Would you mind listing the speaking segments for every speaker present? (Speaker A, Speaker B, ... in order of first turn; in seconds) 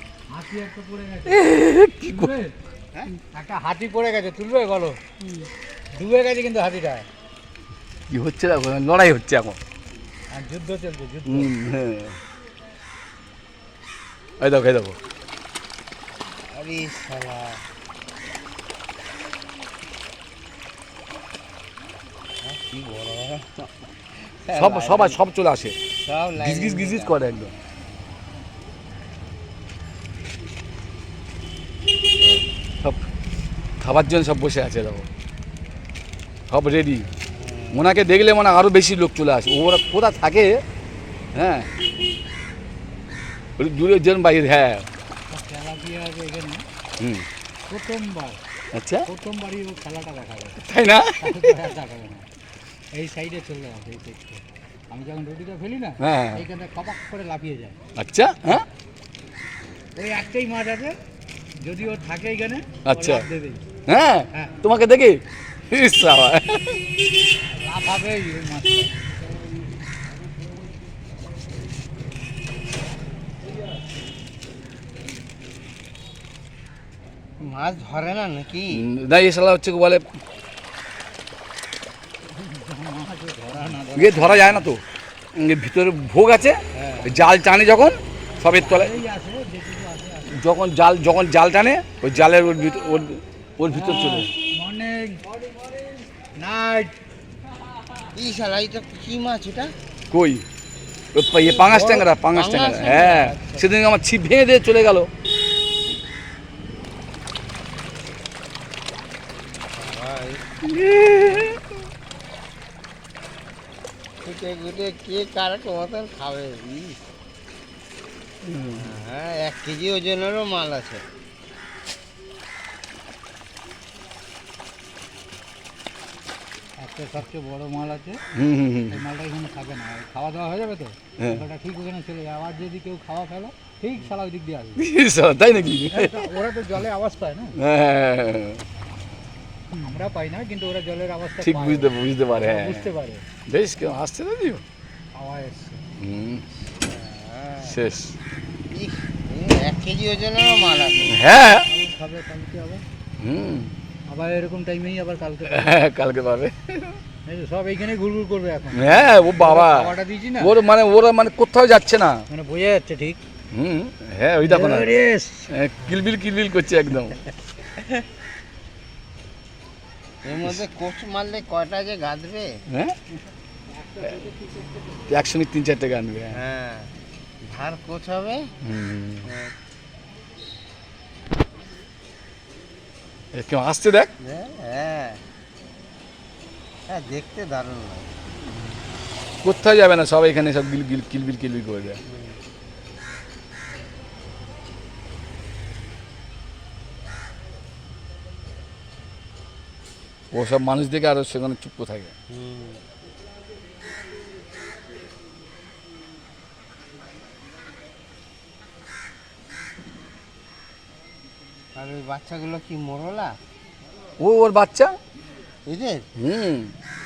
Speaker A: 0.3-2.5, 3.3-5.0, 6.0-7.0, 10.3-11.5, 45.3-46.6, 47.7-48.4, 49.0-50.6, 51.2-52.3, 52.9-57.8, 60.0-61.0, 61.6-63.6, 64.3-64.6, 67.5-68.9, 82.3-84.7, 88.4-90.4, 93.7-95.2, 96.4-97.0, 126.8-128.2, 128.9-134.8, 135.7-137.6, 139.7-143.2, 145.1-145.8, 151.5-152.8, 154.1-155.7, 157.2-160.5, 162.3-163.2, 164.4-165.5, 173.8-174.5
Speaker B: 1.3-2.3, 8.1-9.6, 11.2-12.2, 14.4-15.0, 24.5-25.8, 26.4-27.5, 32.3-33.0, 33.8-35.1, 36.5-37.0, 37.7-40.6, 41.3-41.7, 43.6-44.9, 47.0-47.2, 48.7-49.1, 50.6-51.6, 56.0-56.4, 58.0-58.6, 62.8-63.2, 63.9-66.8, 78.7-80.0, 83.9-84.8, 85.3-88.9, 90.3-94.3, 100.1-100.4, 101.1-105.1, 110.6-111.6, 118.4-118.9, 128.3-129.0, 134.8-136.3, 137.6-138.6, 141.4-142.9, 143.5-144.6, 146.0-146.4, 147.6-148.2, 151.1-151.7, 153.2-153.7, 155.5-157.0, 158.7-162.2, 163.5-165.0, 165.5-167.2, 172.7-172.9, 175.1-176.4, 178.6-179.3, 183.3-184.1, 189.4-192.0, 200.3-202.1, 214.2-214.9, 216.2-216.7
Speaker C: 16.5-17.6, 22.4-25.2, 26.0-27.2, 37.4-37.9, 77.4-78.8, 86.7-87.2, 98.1-99.7, 101.3-103.7, 109.8-110.4, 114.2-117.0, 118.7-121.0, 146.8-147.8, 148.7-151.2, 170.2-172.6, 176.3-176.9, 177.4-178.5, 179.2-179.5, 184.2-185.2, 186.9-188.1, 192.1-192.4, 202.3-202.8, 211.8-213.4, 215.7-216.1